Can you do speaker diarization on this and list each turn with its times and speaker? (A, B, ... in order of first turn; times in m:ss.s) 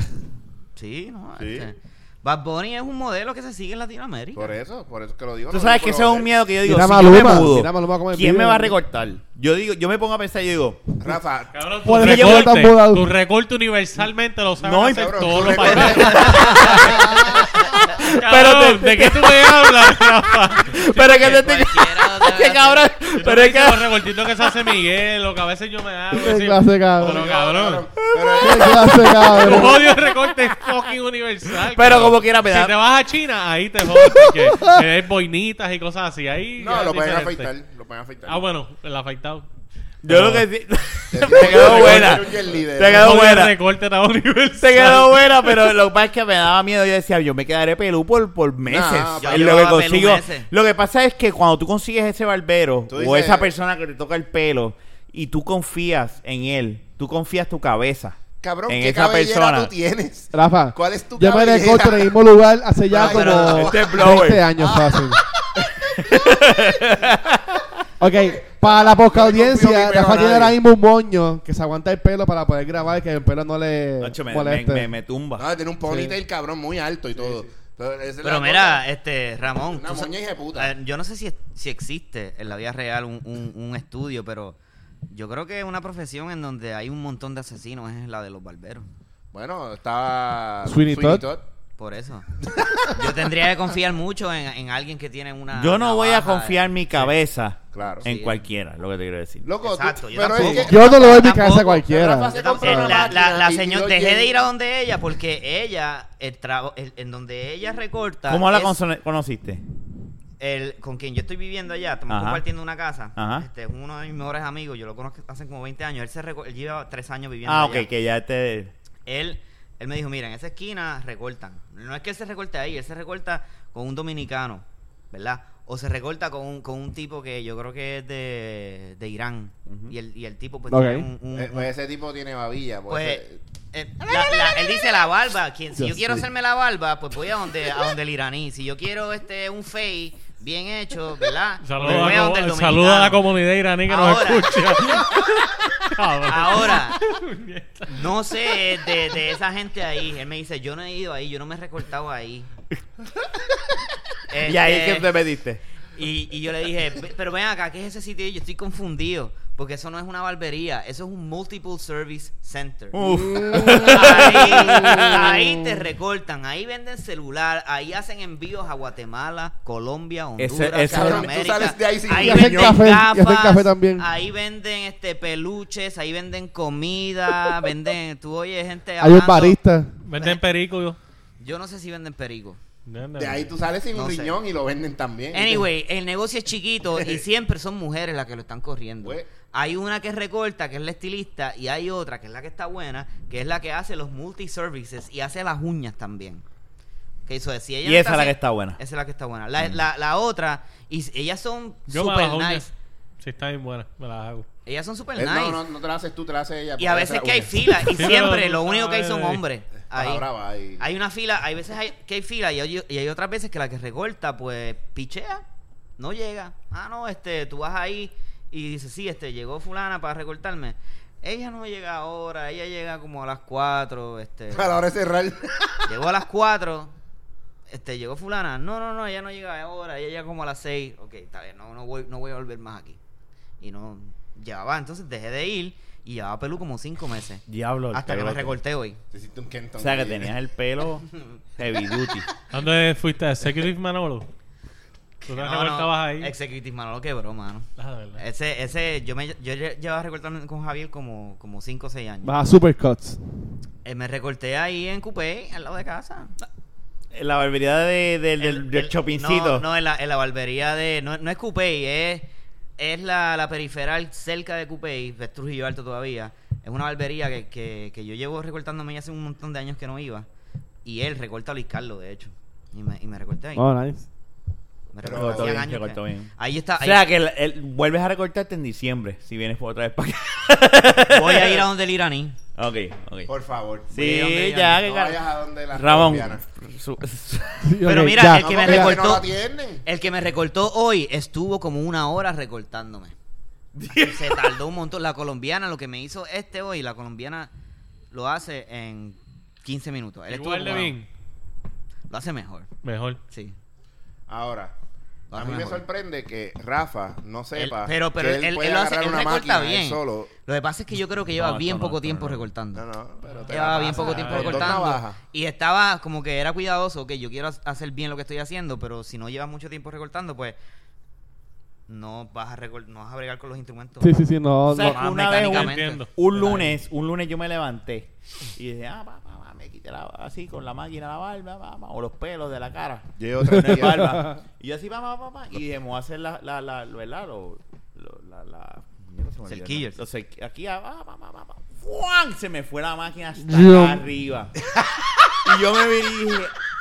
0:00.8-0:04.5 A
0:01.4-0:01.7 B
0:04.3-0:06.3 B
0:05.5-0:10.8 C
0:06.6-0:08.8 D
0:11.0-0:11.6 B
0:11.5-0:21.4 E
0:11.8-0:13.1 D
0:11.9-0:12.7 C
0:14.6-0:24.0 C
0:14.9-0:16.9 B
0:16.4-0:16.7 A
0:16.8-0:17.4 D
0:21.0-0:22.9 A
0:23.2-0:27.9 E
0:26.1-0:27.2 D
0:27.0-0:29.8 B
0:28.0-0:30.6 C
0:28.4-0:29.9 D
0:29.3-0:37.5 E
0:31.5-0:32.7 C
0:36.6-0:38.4 B
0:38.2-0:39.4 E
0:40.0-0:43.6 C
0:40.0-0:40.4 E
0:41.1-0:43.1 B
0:41.2-0:42.3 E
0:42.9-0:45.2 E
0:44.6-0:59.7 C
0:48.6-0:49.7 B
0:49.2-0:50.5 A
0:52.9-0:53.5 B
0:58.4-1:02.1 B
1:00.3-1:05.2 D
1:02.9-1:06.1 B
1:03.0-1:03.7 A
1:03.4-1:04.5 C
1:05.9-1:07.7 C
1:08.0-1:10.6 B
1:08.0-1:14.9 D
1:14.0-1:15.4 C
1:15.4-1:18.8 B
1:15.9-1:16.2 D
1:18.2-1:24.6 A
1:19.7-1:20.7 B
1:25.1-1:28.9 A
1:29.3-1:31.4 B
1:30.6-1:31.2 D
1:31.8-1:32.3 A
1:32.9-1:36.7 A
1:35.5-1:39.4 C
1:37.7-1:38.0 B
1:38.0-1:38.4 A
1:39.4-1:44.3 B
1:39.6-1:48.8 A
1:40.3-1:42.3 D
1:42.6-1:43.0 C
1:48.3-1:49.6 C
1:50.4-1:57.9 A
1:52.1-1:52.4 C
1:53.2-1:53.4 C
1:57.4-1:58.7 C
1:59.0-2:11.7 A
2:09.7-2:09.9 C
2:10.7-2:11.1 D
2:11.3-2:13.4 B
2:12.9-2:23.2 A
2:15.8-2:16.2 D
2:21.6-2:28.0 E
2:23.9-2:25.1 A
2:26.2-2:27.0 A
2:27.9-2:32.5 A
2:34.3-2:35.1 A
2:34.4-2:35.6 C
2:35.9-2:43.0 A
2:42.9-2:45.4 C
2:43.0-2:45.4 D
2:43.7-2:59.6 A
2:50.4-2:51.2 C
2:50.9-2:52.8 B
2:52.1-2:54.1 D
2:59.0-3:00.0 D
3:00.0-3:01.0 E
3:00.1-3:00.4 A
3:01.4-3:02.6 A
3:02.8-3:03.5 E
3:03.2-3:05.7 B
3:03.9-3:04.4 A
3:05.3-3:16.4 A
3:09.0-3:09.3 B
3:17.2-3:22.7 A
3:17.8-3:18.8 C
3:21.9-3:22.7 E
3:23.2-3:24.4 E
3:24.6-3:25.6 A
3:25.2-3:27.9 B
3:26.8-3:30.3 A
3:27.9-3:29.4 E
3:29.9-3:30.8 B
3:30.8-3:35.4 A
3:36.0-3:44.8 A
3:44.5-3:45.8 B
3:45.9-3:46.9 A
3:47.7-3:53.0 A
3:53.6-3:57.4 A
3:57.5-3:58.6 C
3:57.9-3:59.0 A
3:59.1-4:00.3 B
3:59.8-4:02.3 C
4:02.5-4:04.3 E
4:05.2-4:12.4 A
4:05.3-4:06.3 E
4:07.8-4:08.2 E
4:12.2-4:13.2 D
4:13.8-4:16.3 A
4:17.1-4:19.6 C
4:18.4-4:22.3 A
4:22.8-4:30.3 A
4:30.8-4:33.6 A
4:33.6-4:34.0 D
4:34.9-4:37.0 A
4:35.0-4:35.6 B
4:35.0-4:41.6 C
4:41.1-4:42.4 A
4:42.5-4:43.3 C
4:43.3-4:43.9 B
4:43.9-4:45.2 C
4:43.9-4:45.1 A
4:44.8-4:46.4 B
4:45.7-4:47.8 C
4:47.6-4:49.0 D
4:47.8-4:49.3 A
4:48.2-4:49.8 B
4:49.8-4:53.1 A
4:53.7-4:54.6 C
4:53.9-4:57.5 A
4:58.1-5:01.0 A
5:00.3-5:01.1 E
5:02.1-5:02.7 A
5:02.8-5:03.2 E
5:03.3-5:03.6 A
5:04.3-5:04.7 B
5:05.3-5:05.8 A
5:05.3-5:10.3 B
5:07.5-5:12.8 A
5:11.4-5:12.5 C
5:12.7-5:15.2 B
5:13.5-5:20.6 A
5:13.8-5:14.8 C
5:14.2-5:14.5 E
5:21.9-5:24.2 A
5:24.0-5:25.0 D
5:24.7-5:44.5 C
5:24.8-5:26.7 A
5:25.4-5:26.1 E
5:33.2-5:34.2 B
5:33.4-5:34.3 D
5:39.5-5:40.0 A
5:43.4-5:44.0 D
5:45.4-5:46.5 C